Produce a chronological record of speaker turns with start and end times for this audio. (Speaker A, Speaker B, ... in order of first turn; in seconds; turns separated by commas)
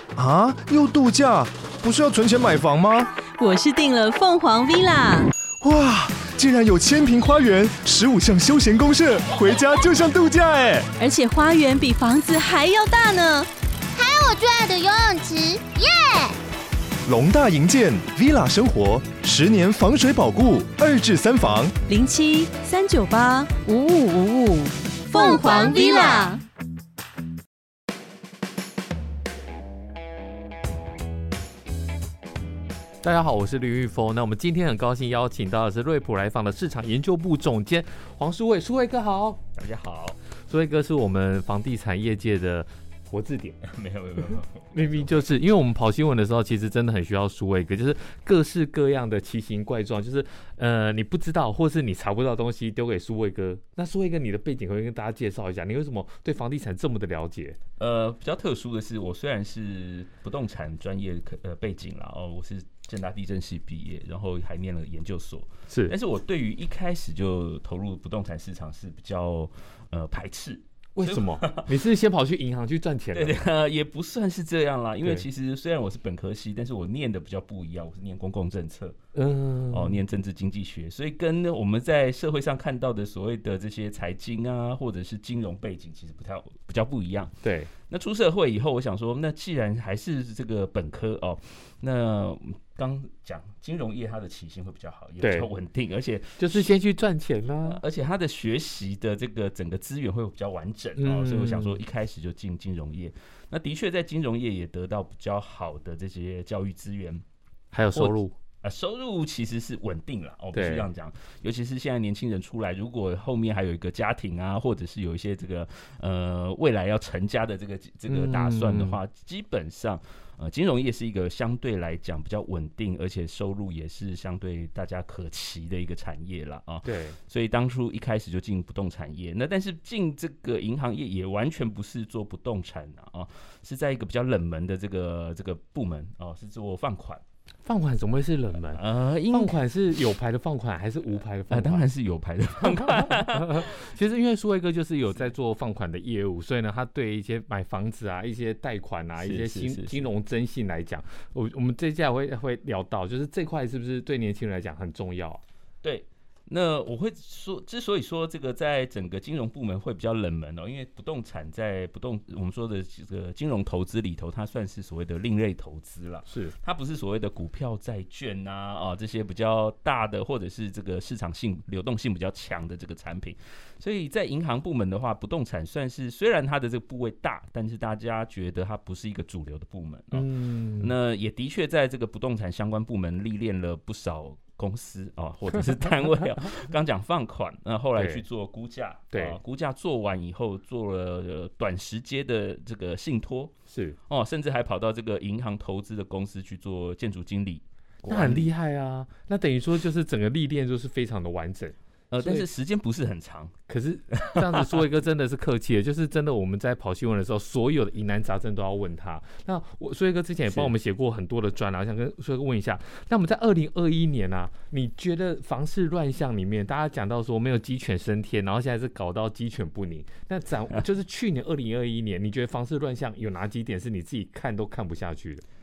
Speaker A: 0.2-3.1, Speaker B: 3.4-5.3, Speaker A: 5.6-10.9, Speaker B: 11.0-13.5, Speaker C: 13.9-16.4, Speaker A: 17.1-21.7, Speaker C: 20.7-21.1, Speaker B: 21.9-26.4, Speaker C: 25.1-26.4, Speaker D: 33.0-39.4, Speaker E: 39.5-40.2, Speaker D: 40.5-43.6, Speaker E: 43.6-45.3, Speaker D: 44.7-57.6, Speaker E: 57.8-71.7, Speaker D: 65.7-66.0, Speaker D: 71.0-73.4, Speaker E: 73.1-79.0, Speaker D: 79.2-80.0, Speaker E: 79.7-96.8, Speaker D: 87.4-87.7, Speaker D: 95.2-95.5, Speaker D: 96.4-97.8, Speaker E: 97.7-107.2, Speaker D: 101.0-101.8, Speaker D: 107.7-108.3, Speaker E: 107.9-137.2, Speaker D: 110.5-110.9, Speaker D: 118.1-119.0, Speaker D: 126.8-127.2, Speaker D: 137.7-141.9, Speaker E: 138.6-139.6, Speaker E: 141.5-144.0, Speaker D: 142.6-155.4, Speaker E: 149.2-150.1, Speaker E: 155.8-193.5, Speaker D: 166.3-166.6, Speaker D: 180.1-180.9, Speaker D: 187.9-188.2, Speaker D: 189.1-189.4, Speaker D: 193.7-194.0, Speaker E: 194.1-198.5, Speaker D: 198.1-202.5, Speaker E: 202.1-203.5, Speaker D: 203.7-225.4, Speaker E: 204.2-204.8, Speaker E: 210.5-210.7